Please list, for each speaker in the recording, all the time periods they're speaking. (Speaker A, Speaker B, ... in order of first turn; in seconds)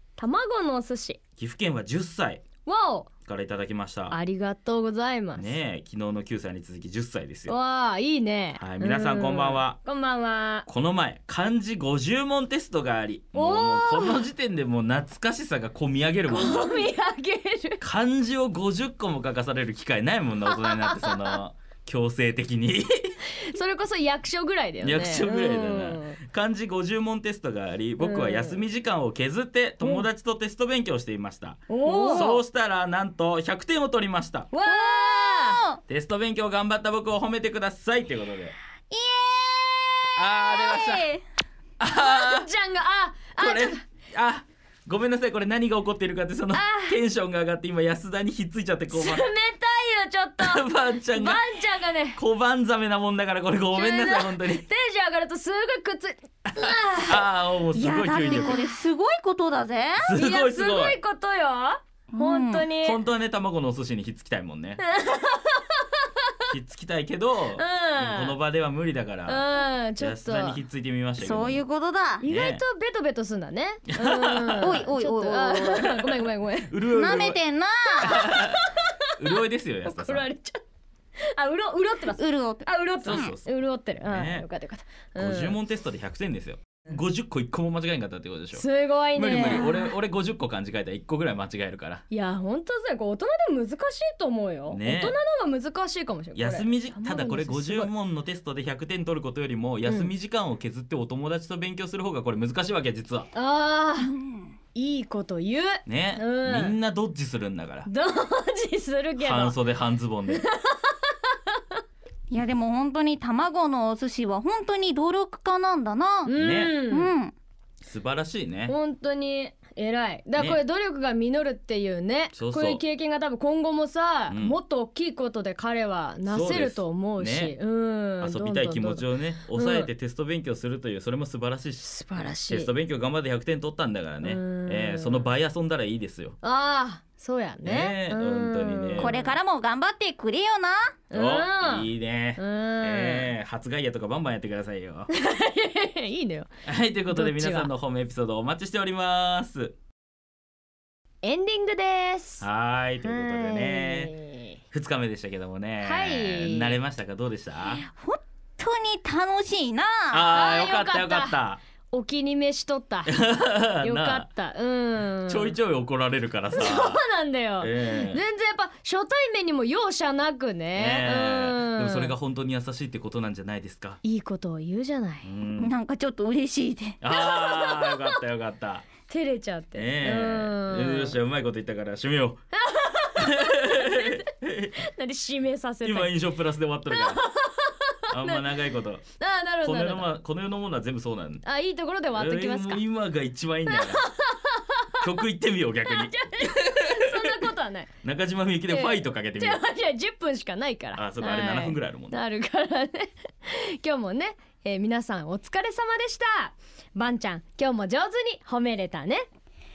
Speaker A: 0.2-1.2, 2.6-3.1, 4.1-5.6, 7.5-10.7, 13.3-14.2, 16.3-17.8, 20.5-21.4, 23.4-26.2, 28.0-28.6, 31.7-32.3, 34.5-35.6, 41.8-43.8, 46.5-47.0, 48.9-52.2, 53.7-57.3, 58.2-58.7, 60.1-63.0, 64.8-66.0, 67.6-68.4, 69.2-70.6, 72.2-77.3, 78.0-78.8, 79.8-80.6, 81.2-85.6, 88.5-89.9, 92.1-97.9, 99.8-100.1, 103.3-104.1, 104.7-106.8, 107.9-109.6, 110.3-111.3, 116.2-117.1, 118.7-129.9, 131.8-132.7, 134.2-135.3, 136.4-139.3, 141.1-143.3, 145.1-146.5, 147.1-147.7, 151.2-152.5, 153.0-154.6, 155.8-156.8, 160.3-161.4, 161.9-163.2, 163.7-165.6, 166.5-172.1, 174.0-175.3, 177.1-178.2, 179.1-181.2, 182.5-184.3, 184.8-186.2, 186.9-188.6, 189.2-190.1, 191.4-192.8, 193.7-195.1, 195.9-197.9, 198.7-209.2
Speaker B: 1.4-2.4, 3.2-4.2, 5.3-7.5, 8.6-9.8, 10.7-16.9, 17.8-23.1, 24.8-34.5, 35.9-38.5, 40.1-41.1, 41.8-42.5, 43.4-49.2, 50.4-51.4, 52.1-54.6, 56.5-58.6, 60.0-61.0, 62.8-64.8, 66.5-71.6, 72.2-72.6, 73.9-74.8, 76.0-77.4, 78.0-78.6, 79.2-80.3, 83.0-84.5, 85.2-92.0, 94.7-95.2, 96.3-103.3, 105.8-107.9, 109.2-110.4, 116.3-116.8, 117.8-118.7, 120.3-120.6, 122.3-122.8, 124.3-124.6, 126.3-127.5, 128.2-136.4, 137.6-139.2, 141.1-145.1, 146.7-149.7, 152.4-154.1, 154.7-157.8, 160.1-161.6, 163.1-164.3, 165.2-167.0, 167.6-168.2, 170.7-174.0, 175.2-175.8, 177.0-178.8, 179.7-182.4, 183.2-184.8, 185.8-187.2, 188.1-189.0, 189.6-191.4, 192.1-194.0, 195.0-197.3, 198.0-199.6, 200.9-202.2
Speaker C: 31.8-32.4, 34.6-35.8, 38.9-41.2, 57.7-60.1, 62.1-62.7, 71.2-72.2, 74.6-75.8, 76.9-78.1, 82.1-83.3, 104.0-104.5, 112.3-116.3, 116.9-117.3, 138.9-140.9, 157.8-160.3, 175.6-177.0